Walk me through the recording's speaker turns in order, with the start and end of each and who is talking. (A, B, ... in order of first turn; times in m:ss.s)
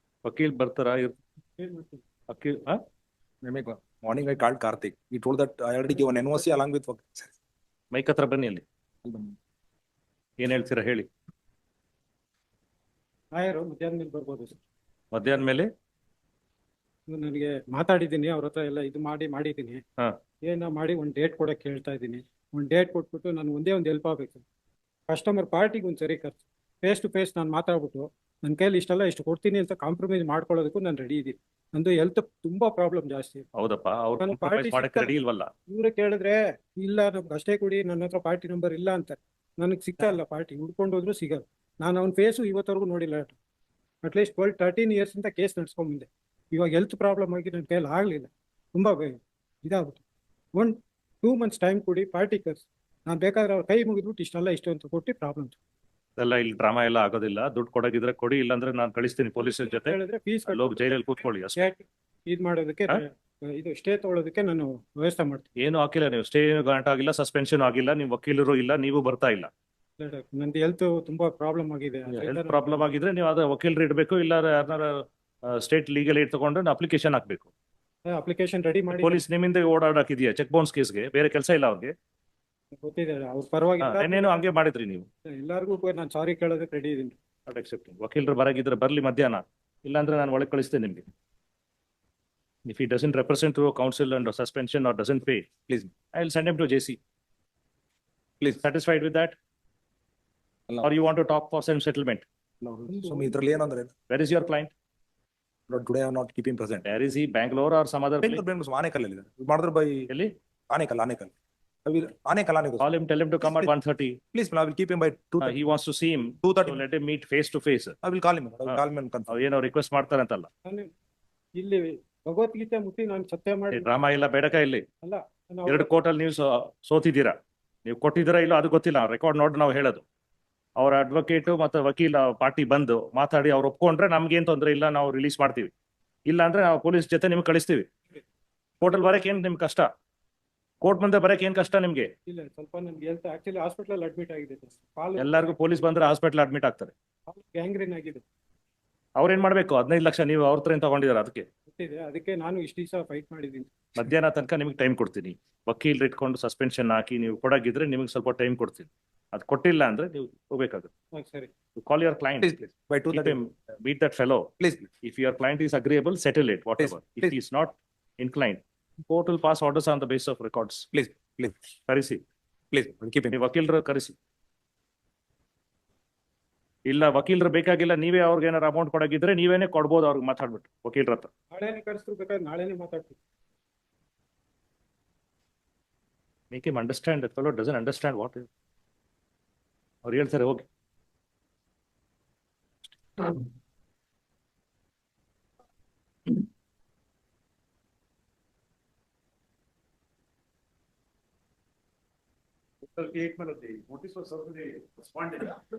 0:00.2-0:01.1 A
0:01.6-0:02.0 B
0:02.3-0:02.8 A
0:03.4-0:07.3 C
0:07.9-0:08.6 A
0:09.0-0:09.4 C
0:10.4-0:11.1 A
0:13.3-0:14.6 B
0:15.1-0:15.7 A
0:17.1-0:19.8 B
0:20.4-0:24.4 B
0:25.1-0:33.4 B
0:33.6-0:35.5 A
0:34.2-0:35.1 B
0:35.7-0:43.3 B
0:44.0-0:50.0 B
0:50.6-0:55.6 B
0:56.2-1:00.0 A
0:59.4-1:05.4 B
1:00.5-1:01.6 A
1:05.6-1:09.5 A
1:10.0-1:12.9 B
1:12.1-1:17.5 A
1:18.1-1:19.2 B
1:18.9-1:21.9 A
1:22.8-1:24.4 B
1:23.8-1:25.1 A
1:25.3-1:27.2 B
1:27.5-1:31.1 A
1:32.7-1:35.5 A
1:36.1-1:37.0 A
1:38.6-1:39.3 A
1:40.8-1:42.2 A
1:42.6-1:43.9 C
1:42.9-1:43.3 B
1:44.1-1:44.7 A
1:45.7-1:46.9 C
1:46.8-1:48.4 A
1:48.2-1:50.1 C
1:50.7-1:51.3 C
1:51.8-1:52.9 C
1:52.8-1:54.2 A
1:53.4-1:53.7 C
1:54.3-1:55.6 C
1:55.4-1:58.0 A
1:56.4-1:56.8 C
1:58.0-1:59.4 C
1:58.7-2:00.5 A
2:00.6-2:00.9 B
2:01.6-2:03.9 B
2:03.7-2:04.8 A
2:05.0-2:05.9 B
2:05.7-2:10.0 A
2:10.8-2:15.7 A
2:16.3-2:17.9 A
2:18.8-2:19.9 A
2:20.8-2:22.1 A
2:22.3-2:25.5 B
2:25.2-2:26.9 A
2:27.3-2:28.2 B
2:29.2-2:31.5 A
2:31.7-2:33.7 B
2:33.9-2:40.9 A
2:41.1-2:41.5 B
2:41.8-2:42.5 A
2:42.4-2:43.4 C
2:43.1-2:44.5 A
2:44.6-2:44.9 C
2:45.0-2:50.9 A
2:46.8-2:47.3 C
2:50.9-2:51.6 C
2:51.9-2:52.2 A
2:52.7-2:53.3 C
2:53.3-2:54.2 A
2:56.8-3:01.3 A
3:01.5-3:03.2 B
3:06.5-3:08.5 A
3:10.0-3:10.7 A
3:23.0-3:25.3 D
3:23.7-3:25.3 A